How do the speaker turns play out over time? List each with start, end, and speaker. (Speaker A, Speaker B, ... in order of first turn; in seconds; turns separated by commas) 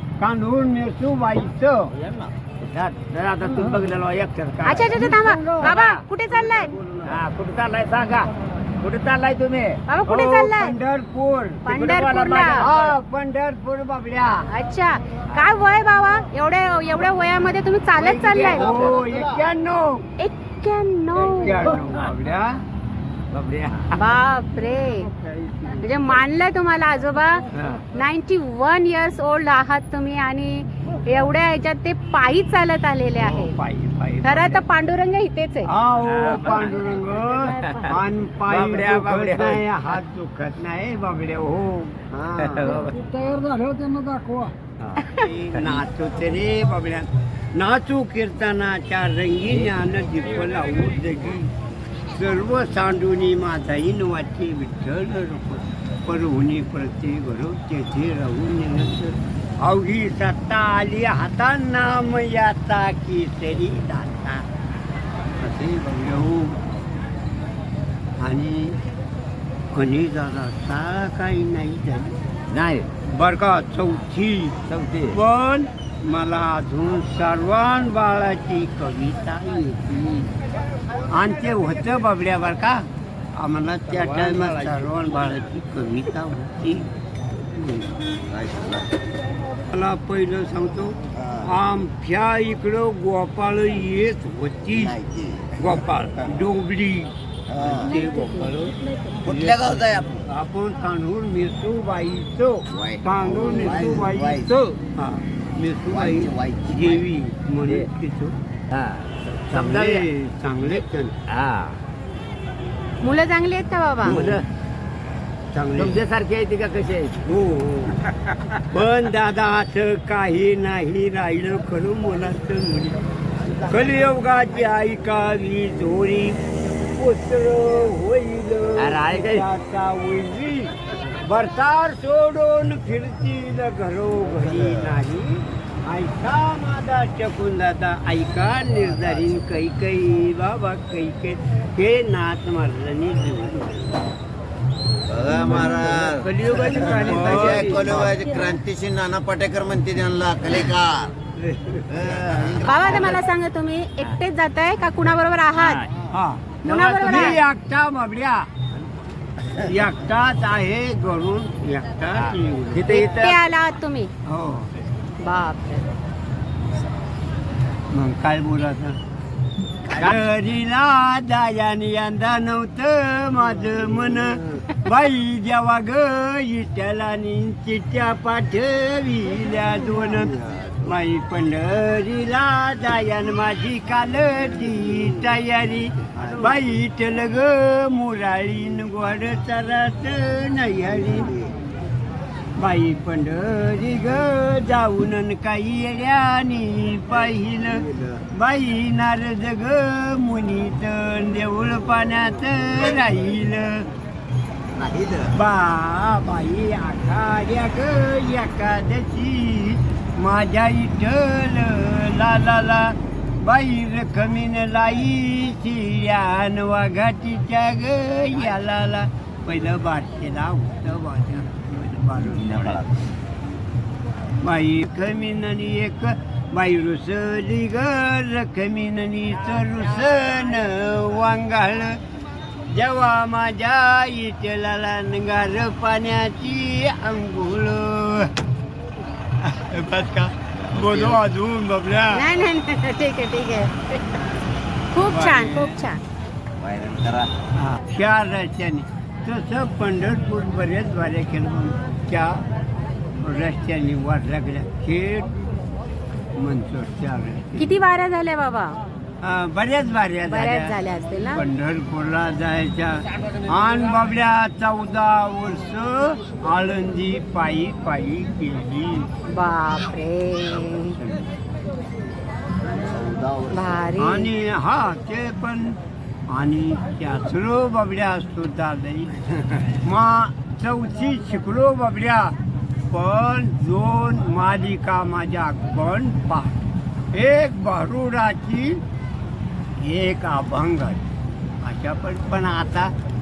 Speaker A: 0.2-1.8, Speaker B: 2.0-6.0, Speaker C: 4.6-6.7, Speaker B: 7.0-9.8, Speaker C: 9.9-10.7, Speaker A: 10.1-14.5, Speaker C: 11.6-12.7, Speaker B: 12.6-12.9, Speaker C: 14.5-18.8, Speaker A: 18.0-20.0, Speaker B: 18.2-19.1, Speaker C: 20.2-21.7, Speaker A: 21.3-22.6, Speaker B: 23.3-23.9, Speaker C: 23.9-25.1, Speaker A: 25.1-25.9, Speaker C: 25.8-33.5, Speaker B: 27.5-27.8, Speaker A: 33.1-34.6, Speaker C: 34.2-35.7, Speaker A: 35.7-42.9, Speaker B: 36.0-36.8, Speaker B: 37.4-37.9, Speaker B: 38.5-39.6, Speaker B: 42.4-43.2, Speaker C: 45.0-45.3, Speaker A: 45.1-51.5, Speaker B: 45.5-45.8, Speaker A: 52.1-64.5, Speaker A: 65.4-66.6, Speaker A: 68.2-68.8, Speaker A: 69.7-72.2, Speaker B: 72.5-72.9, Speaker A: 73.0-74.6, Speaker B: 74.7-75.2, Speaker A: 75.1-80.3, Speaker A: 81.1-86.9, Speaker B: 83.9-85.1, Speaker A: 87.5-88.0, Speaker D: 88.3-88.9, Speaker A: 89.7-95.0, Speaker D: 94.9-95.6, Speaker A: 95.6-98.8, Speaker D: 97.5-98.0, Speaker C: 98.0-98.5, Speaker B: 99.2-100.0, Speaker D: 99.2-100.2, Speaker A: 100.1-108.3, Speaker D: 102.7-104.5, Speaker B: 104.5-104.7, Speaker D: 105.9-107.0, Speaker B: 108.7-110.1, Speaker A: 109.5-111.2, Speaker B: 110.6-111.8, Speaker C: 113.0-114.3, Speaker A: 114.0-114.4, Speaker B: 114.0-114.5, Speaker A: 115.5-116.0, Speaker B: 115.7-117.2, Speaker A: 117.2-118.0, Speaker A: 118.7-143.9, Speaker B: 128.8-129.4, Speaker D: 145.1-151.1, Speaker A: 145.4-148.2, Speaker B: 145.6-148.1, Speaker A: 151.4-152.9, Speaker D: 151.9-153.0, Speaker C: 152.6-155.8, Speaker B: 155.5-155.9, Speaker A: 156.1-158.5, Speaker C: 156.6-157.4, Speaker A: 159.6-163.1, Speaker B: 162.2-163.4, Speaker C: 162.9-164.1, Speaker A: 164.2-164.7, Speaker C: 165.2-165.8, Speaker A: 167.9-169.0, Speaker A: 169.8-191.3, Speaker A: 192.6-203.9, Speaker D: 197.9-198.2, Speaker D: 204.7-205.3, Speaker A: 205.3-222.8, Speaker D: 222.4-222.8, Speaker A: 224.4-232.0, Speaker A: 232.7-238.3, Speaker A: 239.4-242.3, Speaker D: 240.8-241.2, Speaker C: 242.1-244.2, Speaker C: 244.9-246.0, Speaker A: 245.0-245.8, Speaker D: 246.6-247.3, Speaker A: 247.5-252.4, Speaker A: 253.2-255.3, Speaker A: 256.3-257.7, Speaker C: 257.6-258.8, Speaker A: 259.2-260.8, Speaker C: 260.3-261.4, Speaker A: 261.3-269.1, Speaker C: 269.3-271.0, Speaker A: 271.0-271.3, Speaker D: 272.8-273.8, Speaker C: 273.5-274.3, Speaker A: 274.0-275.8, Speaker A: 276.3-279.2, Speaker A: 279.7-282.4, Speaker A: 282.9-286.6, Speaker A: 287.1-288.8, Speaker A: 289.8-291.0, Speaker A: 291.6-292.9